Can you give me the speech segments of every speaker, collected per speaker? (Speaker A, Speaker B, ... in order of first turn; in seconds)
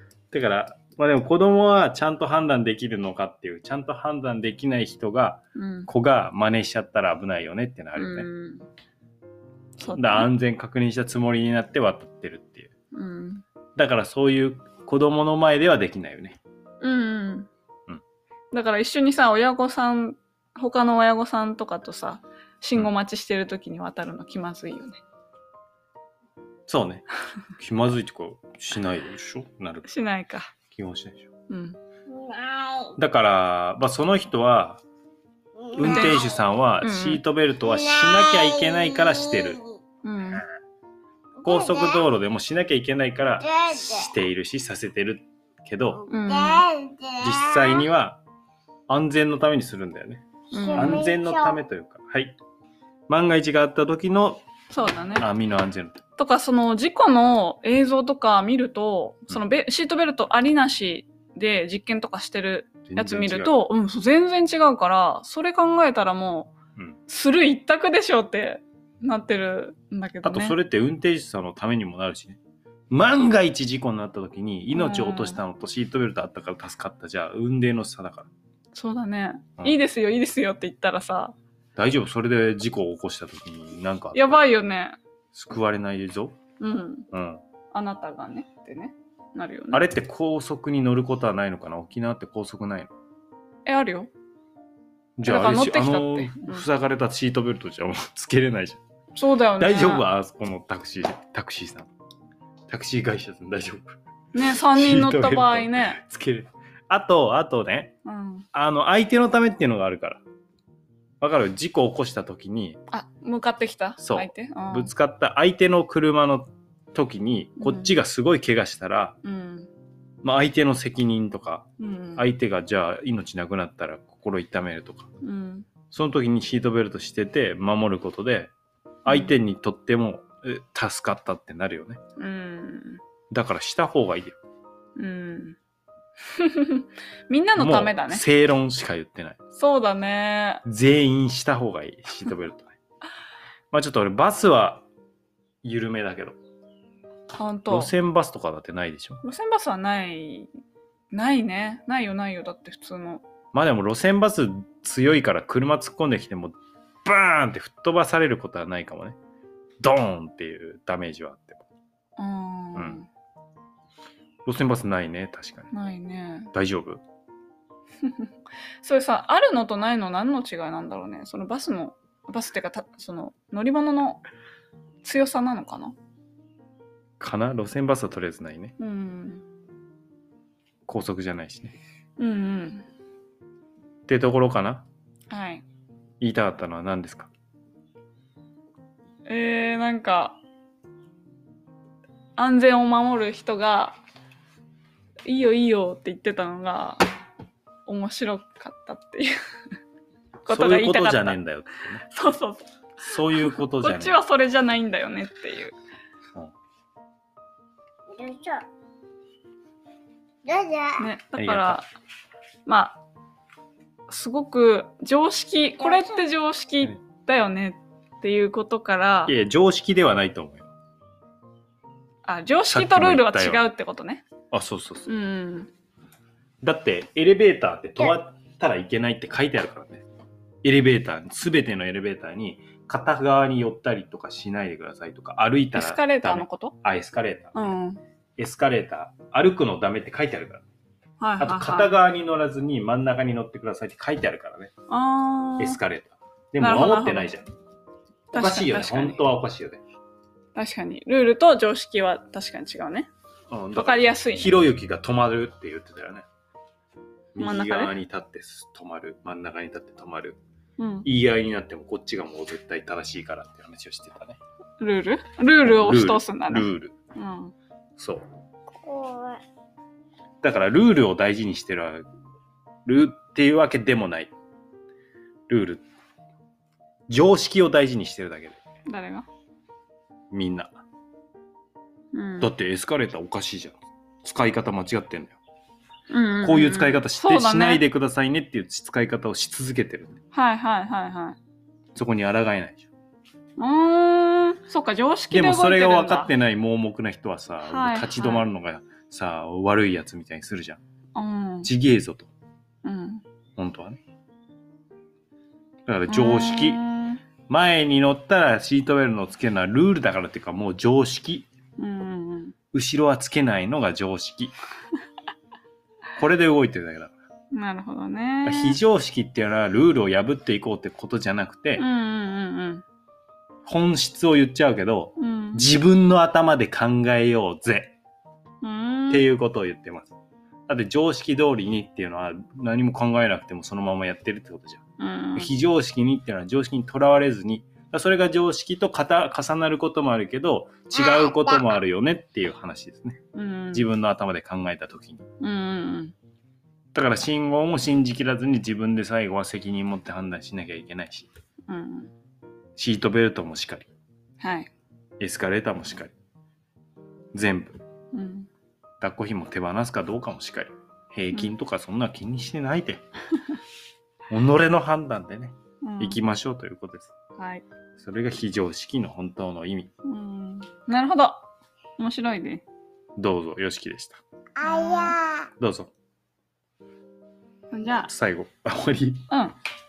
Speaker A: 0.3-8.3, 9.9-12.7, 13.8-16.4, 26.7-27.1, 27.6-29.9, 30.7-31.3, 33.0-34.8, 35.8-39.6, 41.5-46.0, 47.2-48.2, 48.9-52.4, 53.1-54.5, 55.1-56.0, 62.9-63.6, 70.2-72.4, 72.9-78.3, 81.8-84.4, 85.3-86.4, 87.1-87.4, 89.7-92.9, 95.2-98.8, 99.6-101.9, 102.7-104.0, 104.5-107.9, 108.5-110.2, 111.2-112.8, 114.0-119.2, 120.2-125.1, 125.9-128.5, 129.1-132.0, 133.3-134.4, 137.6-139.4, 140.7-142.7, 143.7-144.8, 145.6-146.4, 147.7-149.2, 153.5-159.2, 159.8-161.6, 162.8-163.0, 164.5-165.7, 166.5-167.0, 177.2-178.8, 180.9-181.8, 184.1-184.9, 186.2-187.3, 200.5-202.1, 203.0-204.2, 211.4-211.8, 219.3-220.7, 222.7-223.7, 224.5-225.1, 226.6-230.1, 230.6-237.6, 238.4-240.6, 241.4-244.7, 245.6-247.5, 248.3-249.8, 253.5-256.3, 257.4-260.4, 261.1-264.4, 265.6-266.9, 268.0-268.2, 270.4-272.1, 272.9-274.3, 275.5-275.8, 277.1-278.6, 280.3-280.8, 282.4-285.4, 286.4-290.2, 291.9-292.9, 295.3-300.8, 301.6-302.3, 303.6-304.0, 305.9-306.8, 307.5-311.5, 312.7-314.5, 316.2-317.1, 318.4-321.9, 323.7-328.0, 329.1-330.1, 330.7-334.8, 335.4-343.2, 343.7-345.2, 346.9-351.3, 352.8-353.9, 355.2-356.1, 357.3-357.8, 359.0-363.0, 364.3-367.1, 368.0-369.9, 373.2-374.2, 375.6-375.9, 378.1-379.2
Speaker B: 5.5-5.9, 8.0-8.7, 9.8-10.3, 12.9-13.4, 16.8-17.5, 18.5-25.0, 29.9-30.5, 31.5-31.8, 35.8-36.2, 36.8-37.2, 40.0-40.4, 46.1-46.6, 50.5-51.1, 54.7-55.3, 56.2-66.5, 67.1-70.6, 74.7-75.4, 78.7-81.3, 84.1-85.0, 86.6-87.1, 87.7-89.8, 93.7-94.1, 95.2-96.7, 99.2-100.1, 104.3-106.0, 108.0-108.5, 112.9-114.9, 117.6-118.0, 119.2-119.7, 121.8-122.3, 125.2-125.7, 129.1-129.3, 132.2-133.0, 135.0-135.6, 136.3-138.2, 139.6-140.6, 147.3-147.9, 149.2-150.5, 151.1-153.2, 162.2-163.1, 165.7-166.5, 168.0-168.3, 168.8-174.2, 175.0-175.9, 178.8-179.4, 182.2-182.8, 185.3-185.6, 189.3-190.4, 192.4-194.0, 195.2-197.0, 197.9-199.3, 200.4-201.4, 202.1-202.7, 203.3-205.8, 211.0-211.8, 212.7-213.0, 214.1-219.3, 222.2-224.2, 225.1-225.7, 235.7-236.7, 237.5-238.0, 241.2-241.9, 244.9-245.8, 246.6-247.3, 248.3-249.3, 250.6-253.1, 253.8-254.6, 257.4-257.9, 260.8-261.1, 264.8-267.5, 278.9-279.3, 282.1-282.5, 286.1-287.9, 290.3-291.4, 293.6-296.3, 297.7-298.5, 301.1-301.7, 302.8-303.2, 306.1-307.2, 311.8-312.6, 317.5-318.8, 321.8-322.8, 325.2-325.7, 328.6-329.2, 335.0-335.5, 343.3-343.9, 345.4-346.1, 351.7-352.1, 354.4-354.7, 358.1-358.5, 365.8-366.2, 367.4-367.6, 370.1-371.5, 372.0-372.6, 374.6-375.2, 377.7-378.1
Speaker C: 32.1-33.0, 35.6-36.4, 37.7-39.8, 41.4-42.0, 43.4-44.1, 46.0-47.9, 50.5-51.6, 208.1-208.7, 210.4-211.0, 215.8-216.2, 268.8-269.4, 341.1-341.4, 374.6-375.5